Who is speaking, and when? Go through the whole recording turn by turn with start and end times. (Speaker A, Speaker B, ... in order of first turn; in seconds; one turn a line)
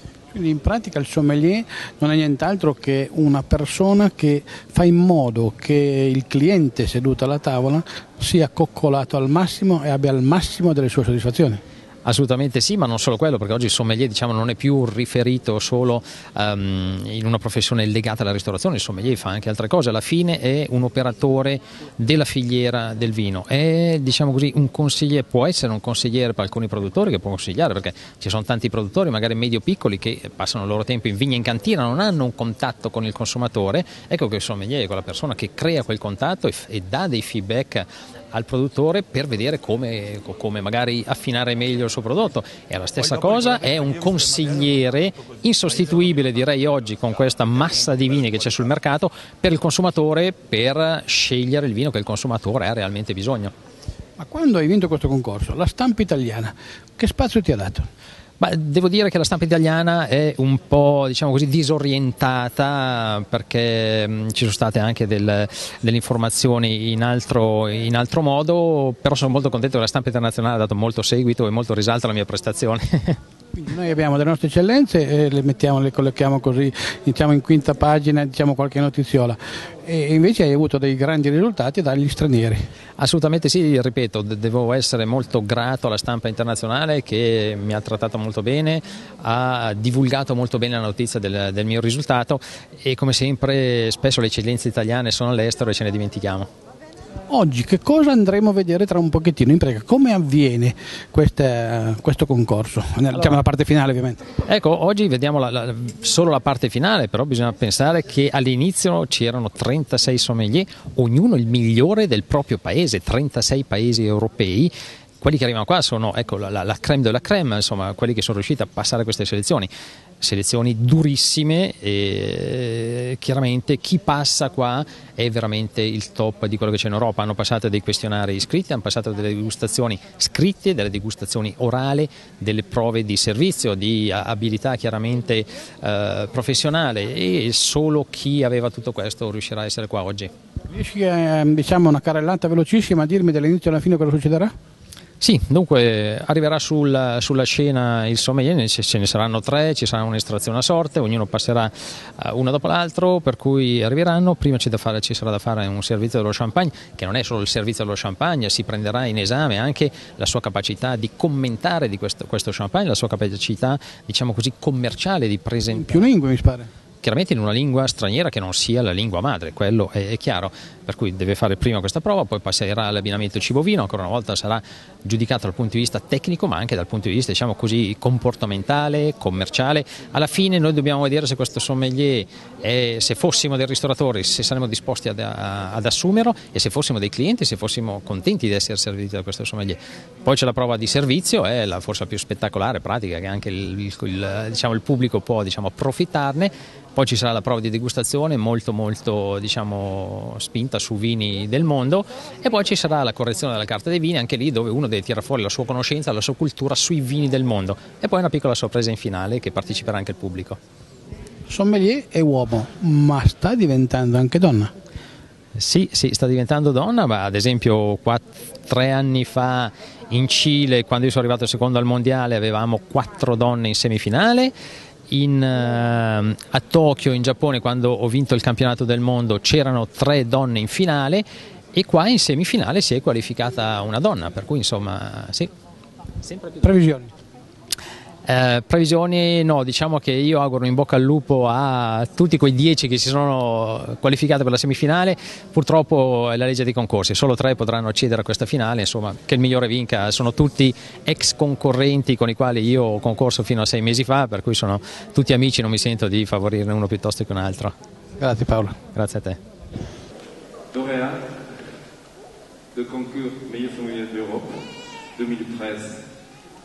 Speaker A: 0.3-11.6
Speaker B: 12.0-53.5
Speaker A: 54.2-57.9
Speaker B: 58.4-73.2
Speaker A: 73.5-82.6
Speaker B: 83.0-96.5
Speaker A: 97.3-104.2
Speaker B: 104.4-119.7
Speaker B: 120.2-140.3
Speaker A: 140.7-144.5
Speaker B: 145.2-166.1
Speaker A: 165.7-166.7
Speaker B: 167.0-210.6
Speaker A: 211.5-214.7
Speaker B: 215.6-224.5
Speaker B: 225.1-231.2
Speaker B: 231.7-235.5
Speaker B: 236.2-236.6
Speaker A: 236.6-237.1
Speaker B: 238.3-257.7
Speaker A: 258.2-258.8
Speaker B: 258.9-259.4
Speaker C: 260.8-261.1
Speaker C: 262.8-264.5
Speaker C: 265.2-265.8